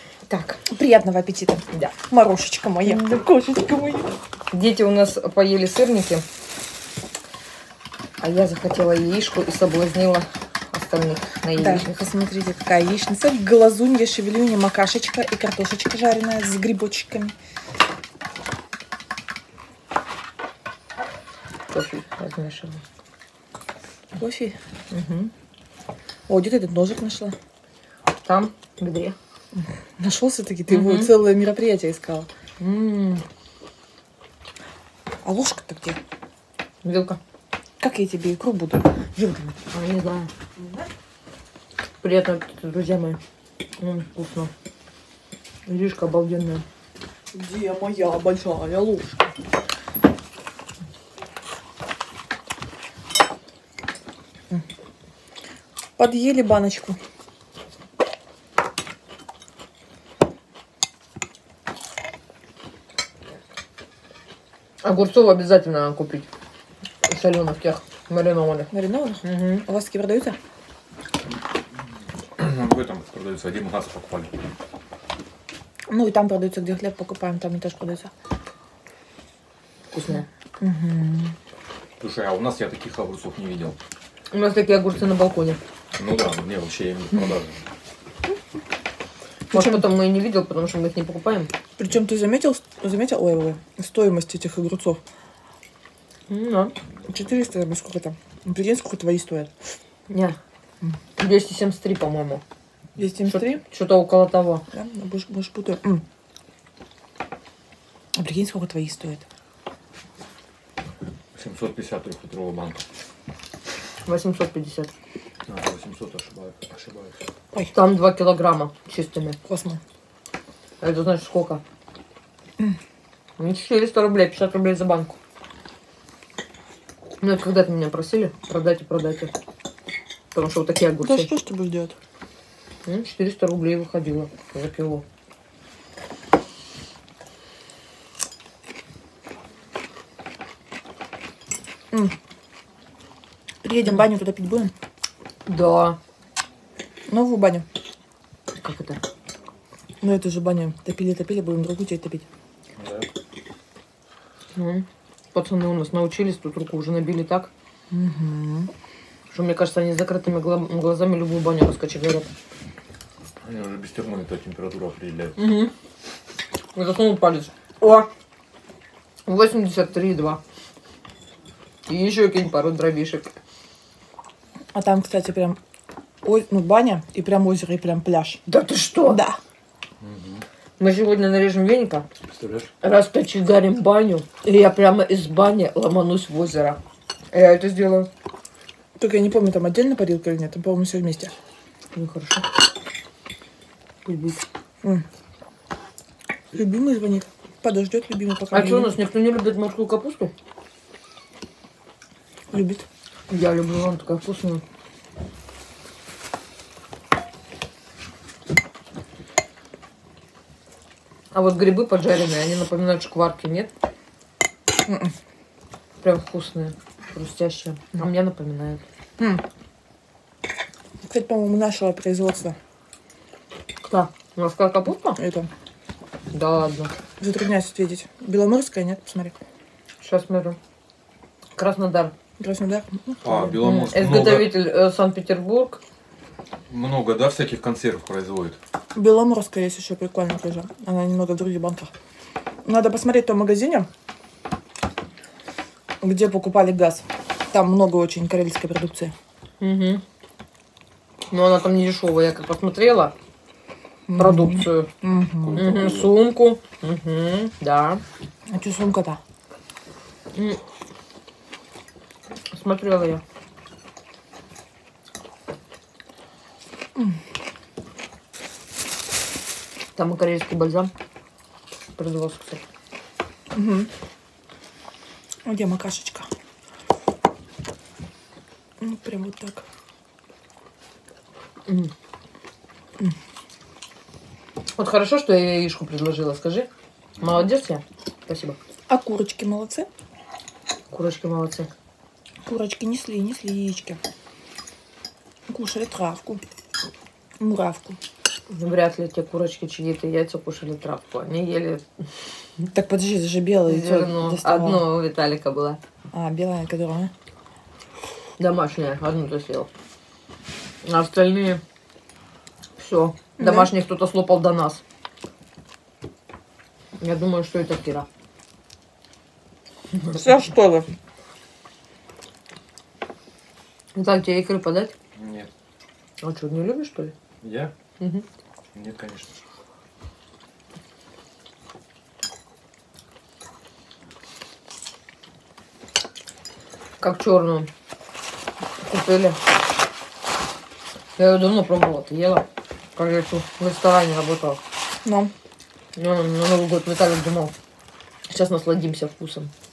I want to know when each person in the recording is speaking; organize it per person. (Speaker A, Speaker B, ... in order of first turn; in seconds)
Speaker A: 0.3-0.6, 2.8-3.2, 4.5-6.2, 8.2-12.1, 21.7-22.8, 24.9-25.3, 28.2-29.1, 30.7-31.1, 32.6-33.2, 36.8-37.2, 39.7-40.3, 42.0-43.2, 43.8-44.5, 45.6-46.6, 64.8-66.3, 67.0-68.7, 69.2-69.6, 79.9-80.2, 84.3-85.6, 89.5-91.5, 96.3-96.7, 100.1-100.4, 101.2-102.4, 103.3-104.6, 114.0-114.9, 117.7-119.4, 120.8-121.6, 123.4-125.1, 127.2-129.3, 130.3-131.3, 132.8-135.0, 145.4-146.0, 148.5-149.0, 154.5-157.5, 159.3-162.3, 165.4-165.7, 166.7-168.1, 169.2-170.4, 171.9-173.3, 178.5-179.2, 180.8-182.1, 182.8-186.8, 187.3-188.1, 191.9-192.5, 194.0-194.4, 198.5-200.3, 203.3-204.6, 211.3-213.7, 216.0-218.8, 223.8-225.2, 226.3-226.9, 230.0-230.6, 231.6-232.1, 233.6-235.8, 249.6-250.0, 251.3-253.1, 254.2-254.9, 255.5-258.0, 260.3-260.6, 262.5-263.2, 269.9-270.9, 271.9-272.6, 281.7-281.9, 284.8-286.7, 287.2-288.6, 290.9-291.7, 298.5-302.1, 303.6-305.8, 308.4-309.7, 310.8-311.6, 312.8-314.8, 317.0-318.1, 323.9-324.9, 326.2-327.1, 328.0-328.2, 337.0-337.7, 338.8-339.4, 341.2-342.4, 342.9-344.6, 345.9-347.5, 348.3-349.5
Speaker B: 0.7-4.2, 11.6-17.3, 24.1-24.6, 26.3-27.3, 29.5-32.3, 35.2-36.0, 37.8-39.5, 40.6-40.9, 47.3-49.3, 56.0-57.0, 68.7-70.4, 75.9-78.1, 80.6-81.3, 89.5-89.8, 91.8-95.0, 97.1-99.5, 103.0-103.6, 104.7-106.0, 108.1-109.2, 119.5-119.8, 131.0-131.9, 143.6-144.7, 147.1-147.7, 150.0-152.2, 157.9-158.7, 174.7-175.6, 176.2-178.4, 179.0-179.4, 189.0-191.3, 196.5-199.0, 202.5-202.8, 214.8-215.1, 221.1-222.6, 225.2-225.5, 227.2-229.3, 232.4-233.5, 238.9-241.9, 242.6-243.9, 246.0-249.1, 254.1-255.6, 258.5-259.2, 273.5-273.9, 275.4-276.3, 278.8-279.6, 288.9-289.9, 292.4-294.0, 295.5-296.4, 297.4-298.0, 302.7-304.9, 306.1-307.1, 313.4-313.7, 320.1-320.9, 345.0-345.3
Speaker C: 72.4-74.3, 82.0-83.8, 86.0-87.6, 111.3-112.8, 115.5-117.2, 152.8-153.1, 163.4-165.4, 180.0-180.4, 182.3-182.7, 233.2-234.6, 236.7-238.6, 255.4-256.1, 287.2-287.4, 325.1-325.5, 327.4-327.7, 328.7-329.3